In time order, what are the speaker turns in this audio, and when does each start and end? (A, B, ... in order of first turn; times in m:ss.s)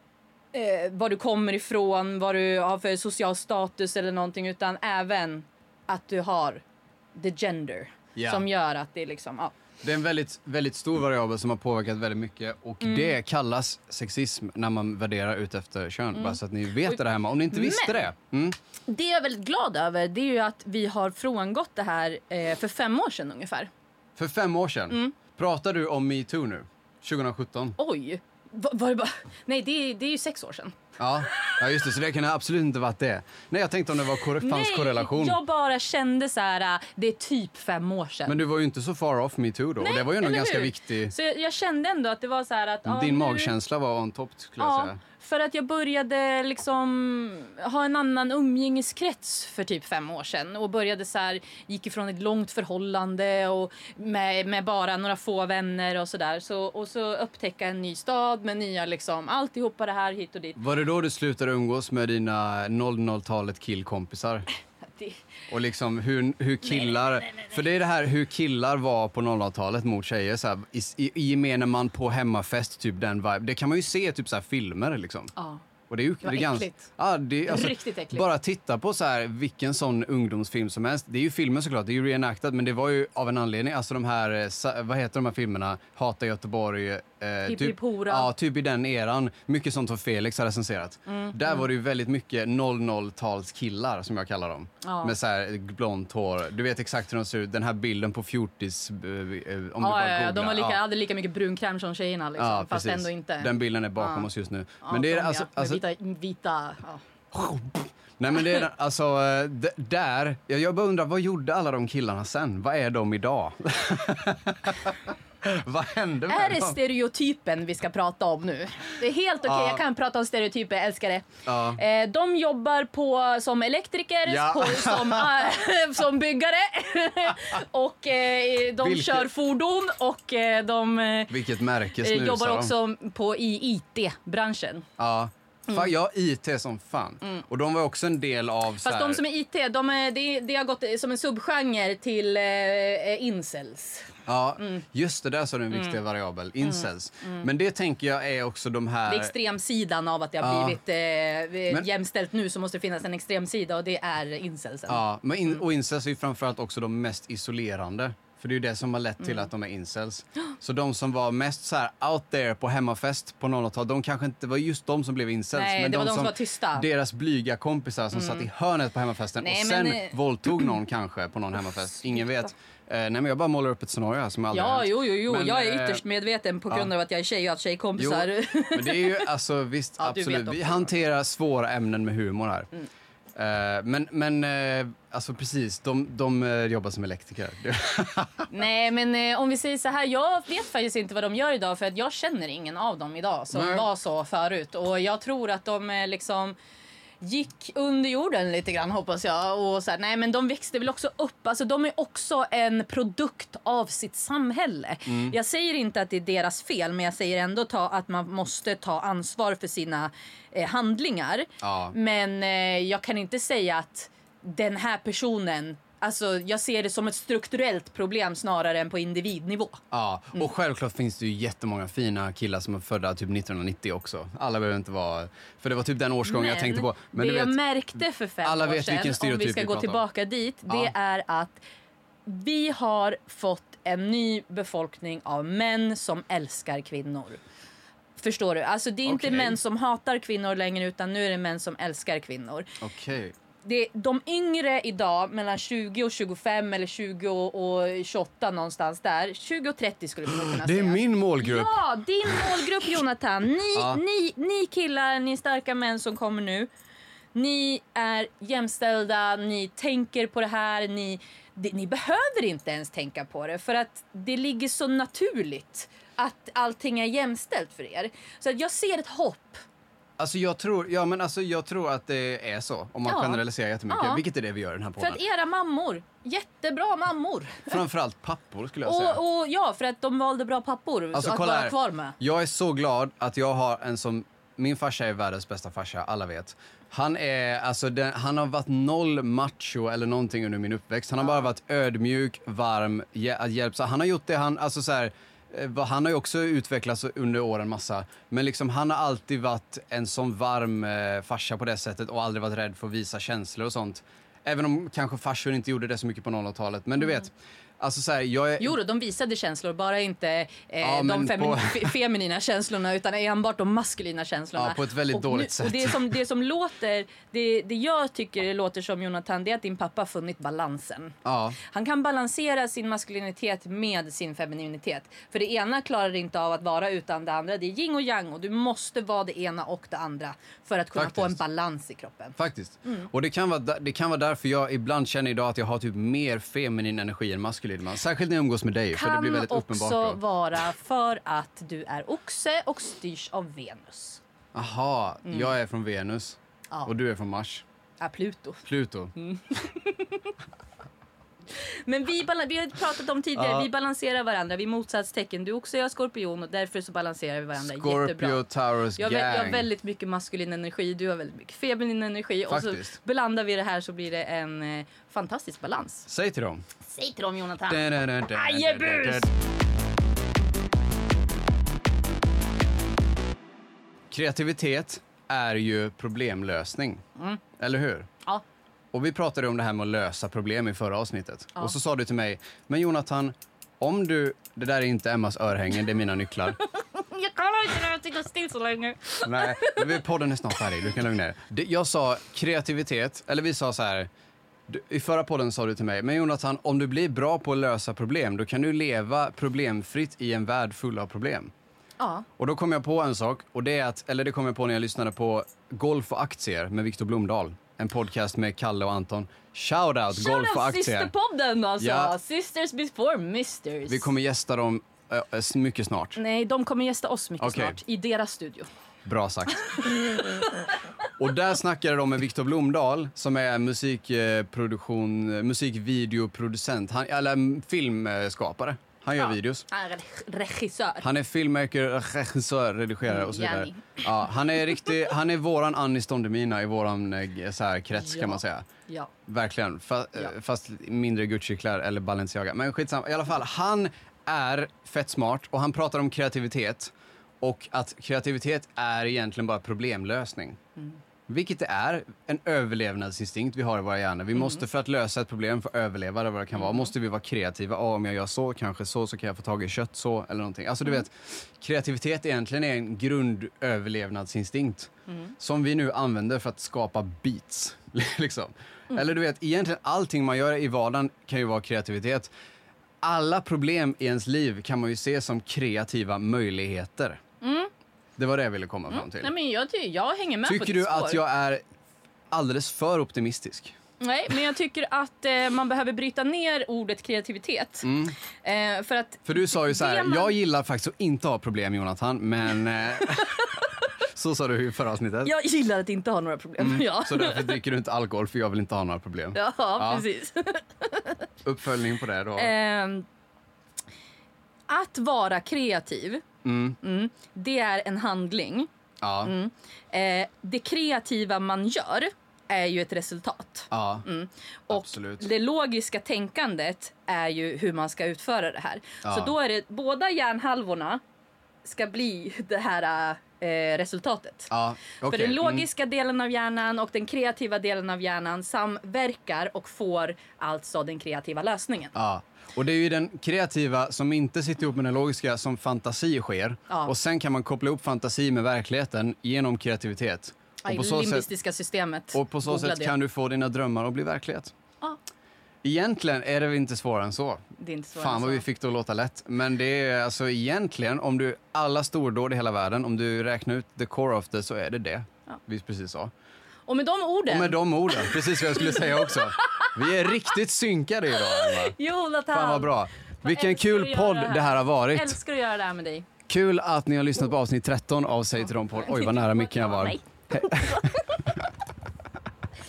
0:00.5-0:06.6 A
0:07.2-0:09.6 A
0:08.2-0:08.4 B
0:09.8-0:18.6 B
0:12.8-0:13.2 A
0:16.1-0:17.0 A
0:17.5-0:18.1 A
0:18.9-0:23.7 A
0:24.2-0:27.8 B
0:24.9-0:25.2 A
0:27.8-0:30.8 A
0:31.0-0:35.4 B
0:34.4-0:38.4 A
0:38.3-0:41.1 B
0:39.8-0:43.5 A
0:42.9-0:45.0 B
0:44.6-1:00.6 A
1:00.6-1:04.5 B
1:05.5-1:15.3 B
1:15.4-1:15.6 A
1:15.9-1:40.8 B
1:16.2-1:16.9 A
1:17.5-1:18.3 A
1:27.4-1:28.3 A
1:31.1-1:31.6 A
1:34.8-1:35.2 A
1:39.8-1:44.3 A
1:42.4-1:45.8 B
1:44.8-1:47.0 A
1:47.3-1:56.8 B
1:56.3-2:11.4 A
1:59.4-1:59.8 B
2:01.5-2:01.8 B
2:04.3-2:05.5 B
2:08.8-2:09.3 B
2:11.3-2:12.7 B
2:12.0-2:14.9 A
2:15.0-2:19.2 B
2:18.8-2:24.8 A
2:24.3-2:29.4 B
2:26.7-2:27.4 A
2:29.1-2:35.0 A
2:30.4-2:30.8 B
2:34.9-2:56.0 B
2:39.2-2:39.5 A
2:45.5-2:46.9 A
2:48.1-2:48.5 A
2:49.4-2:50.6 A
2:54.5-2:59.3 A
2:58.0-3:02.7 B
3:00.0-3:00.9 A
3:03.4-3:08.5 B
3:08.5-3:16.6 A
3:13.5-3:13.9 B
3:17.2-3:39.8 A
3:25.1-3:25.4 B
3:31.6-3:32.0 B
3:39.9-3:47.6 B
3:46.2-3:51.6 A
3:48.4-3:50.0 B
3:50.7-3:50.9 B
3:52.3-3:57.4 A
3:58.2-4:02.7 A
3:59.1-3:59.6 B
4:02.8-4:03.3 B
4:03.6-4:16.7 A
4:10.5-4:11.8 B
4:13.8-4:14.0 B
4:17.3-4:29.6 A
4:30.2-4:35.2 B
4:33.0-4:34.2 A
4:35.0-4:37.8 A
4:37.7-4:39.2 B
4:38.8-4:42.2 A
4:41.1-5:08.8 B
5:08.6-5:33.1 A
5:10.8-5:11.9 B
5:14.6-5:16.1 B
5:21.2-5:21.6 B
5:31.0-5:31.4 B
5:32.4-5:40.2 B
5:38.9-5:44.2 A
5:44.5-5:47.6 B
5:45.3-5:45.5 A
5:48.0-5:48.6 A
5:48.6-5:49.1 B
5:49.2-5:50.3 A
5:51.9-5:58.4 A
5:53.4-5:53.7 B
5:57.6-5:59.7 B
5:59.0-6:06.1 A
6:02.5-6:03.0 B
6:06.1-6:06.6 B
6:06.9-6:09.3 A
6:07.7-6:09.3 B
6:14.1-6:17.0 B
6:17.6-6:18.1 B
6:18.9-6:26.6 B
6:26.6-6:30.0 A
6:29.2-6:34.1 B
6:34.7-6:41.5 B
6:42.0-6:42.3 A
6:42.4-6:51.1 B
6:50.1-6:54.1 A
6:51.8-6:52.1 B
6:53.9-6:56.2 B
6:56.2-6:58.7 A
6:57.4-6:57.8 B
6:59.0-7:00.2 B
6:59.9-7:00.4 A
7:01.2-7:09.7 B
7:09.2-7:11.1 A
7:11.0-7:18.7 B
7:13.1-7:14.0 A
7:18.0-7:19.1 A
7:19.3-7:30.6 B
7:31.3-7:52.3 B
7:34.4-7:34.6 A
7:36.6-7:36.9 A
7:53.0-7:57.2 B
7:57.4-7:57.7 A
7:58.2-7:59.3 B
7:58.9-8:01.2 A
8:00.4-8:01.6 B
8:02.3-8:03.8 B
8:04.0-8:07.9 A
8:07.8-8:08.2 B
8:08.4-8:10.3 A
8:09.2-8:13.5 B
8:13.0-8:13.6 A
8:14.1-8:15.3 B
8:15.2-8:17.6 A
8:16.6-8:20.0 B
8:19.3-8:21.2 A
8:21.4-8:22.5 B
8:22.4-8:23.1 A
8:24.7-8:26.3 A
8:26.4-8:26.8 B
8:26.8-8:28.7 A
8:29.0-8:29.3 B
8:29.2-8:41.0 A
8:33.7-8:34.1 B
8:34.7-8:35.2 B
8:39.0-8:39.3 B
8:41.6-8:51.9 A
8:44.5-8:45.7 B
8:51.9-9:01.3 B
8:56.7-8:56.9 A
9:00.6-9:03.0 A
9:02.1-9:04.5 B
9:05.6-9:07.4 B
9:07.6-9:08.4 A
9:08.0-9:16.1 B
9:16.7-9:20.0 A
9:17.3-9:21.8 B
9:21.3-9:26.1 A
9:22.3-9:25.2 B
9:26.3-9:31.4 B
9:28.8-9:31.2 A